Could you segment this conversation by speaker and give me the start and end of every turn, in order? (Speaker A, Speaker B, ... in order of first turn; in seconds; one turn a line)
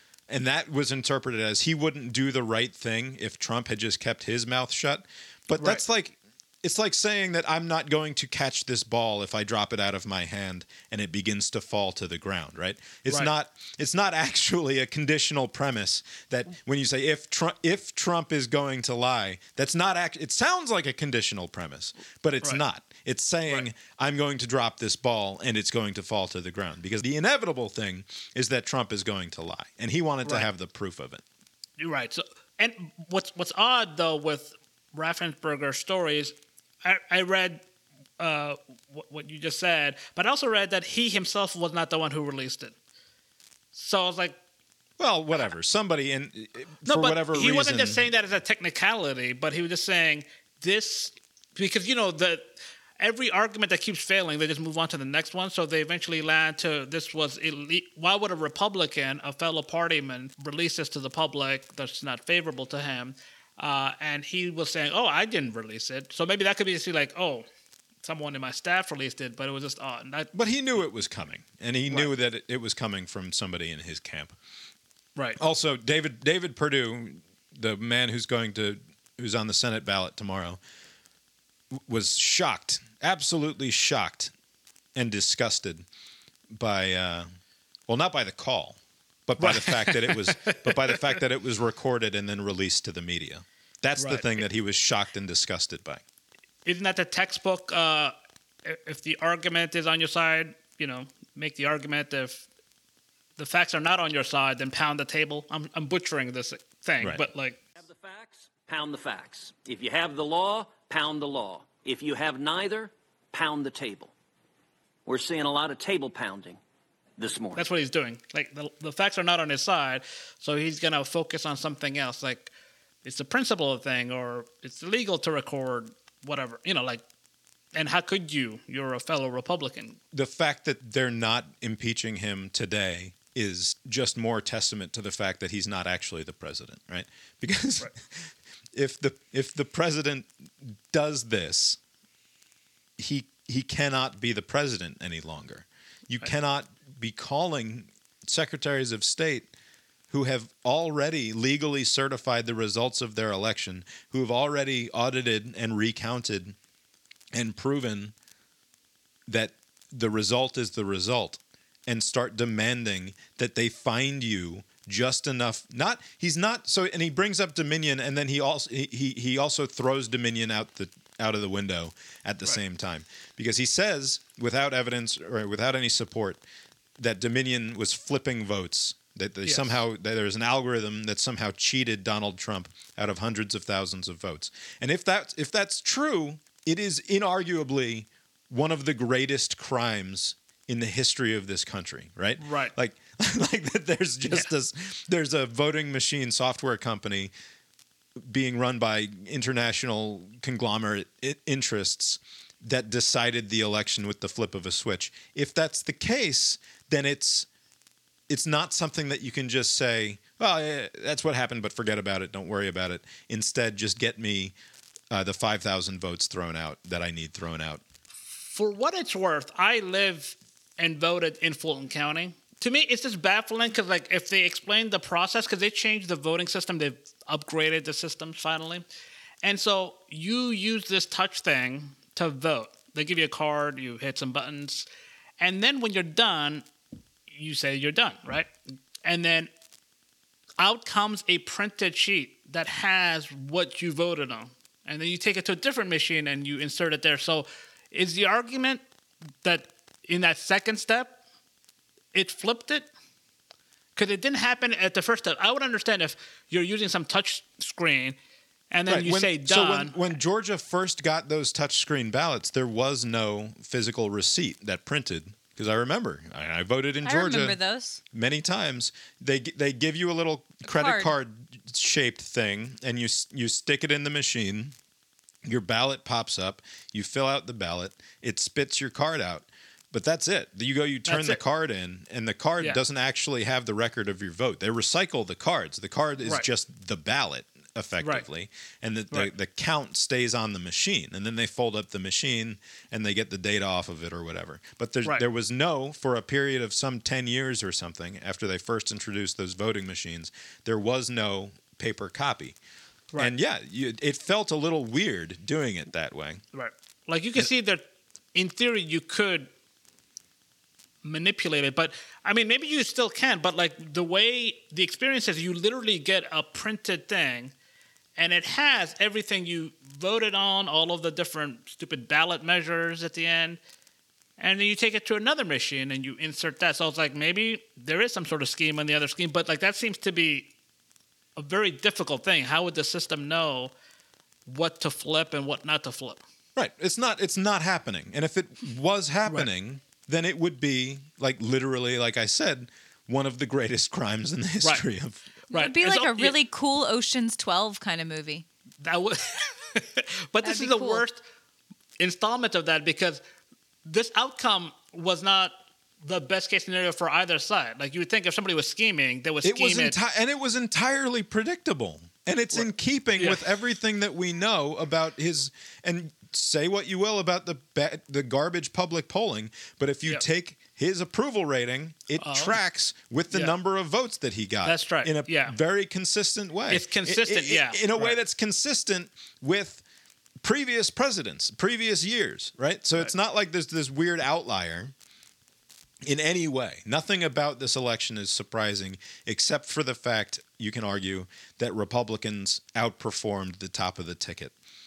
Speaker A: 0.3-31.2
Speaker B: 5.6-5.8
Speaker B: 31.8-37.6
Speaker B: 38.2-42.7
Speaker B: 43.7-44.4
Speaker A: 45.0-48.0
Speaker B: 46.8-67.5
Speaker B: 68.0-70.3
Speaker A: 70.3-74.3
Speaker A: 75.4-80.6
Speaker A: 81.7-84.3
Speaker A: 84.9-85.8
Speaker A: 86.5-87.3
Speaker A: 87.9-96.0
Speaker B: 89.4-91.1
Speaker B: 94.0-94.3
Speaker B: 96.6-98.1
Speaker B: 98.6-102.5
Speaker B: 103.4-107.6
Speaker A: 107.0-107.2
Speaker C: 107.8-114.1
Speaker C: 115.0-116.6
Speaker C: 117.2-117.6
Speaker B: 117.5-122.5
Speaker B: 123.0-127.0
Speaker B: 127.7-130.0
Speaker A: 130.1-141.8
Speaker A: 143.0-149.5
Speaker A: 150.1-156.6
Speaker A: 157.3-158.1
Speaker A: 159.3-176.4
Speaker A: 177.0-197.3
Speaker B: 179.4-179.7
Speaker B: 192.4-192.7
Speaker A: 198.2-207.5
Speaker A: 208.3-214.5
Speaker A: 215.1-217.8
Speaker B: 218.5-228.8
Speaker B: 229.4-234.8
Speaker B: 235.4-236.7
Speaker B: 237.3-238.5
Speaker B: 239.0-239.5
Speaker B: 240.6-248.8
Speaker B: 249.4-251.2
Speaker B: 252.1-252.9
Speaker B: 253.9-258.2
Speaker B: 258.7-260.0
Speaker A: 258.9-267.6
Speaker D: 267.0-268.0
Speaker A: 268.1-274.7
Speaker D: 270.6-271.1
Speaker A: 275.4-302.6
Speaker B: 281.1-281.4
Speaker B: 288.0-288.2
Speaker A: 303.1-306.4
Speaker B: 306.5-309.5
Speaker B: 311.0-317.5
Speaker B: 318.2-323.6
Speaker B: 324.4-330.5
Speaker B: 331.4-333.7
Speaker B: 334.4-336.2
Speaker A: 336.6-345.2
Speaker D: 345.5-348.4
Speaker B: 345.5-346.3
Speaker B: 348.8-351.2
Speaker D: 350.4-351.0
Speaker B: 352.0-353.2
Speaker B: 353.8-359.9
Speaker A: 359.4-379.8
Speaker B: 362.5-363.4
Speaker B: 372.2-372.5
Speaker B: 373.3-373.5
Speaker B: 374.6-375.6
Speaker B: 376.7-378.2
Speaker A: 380.4-384.9
Speaker A: 386.0-394.5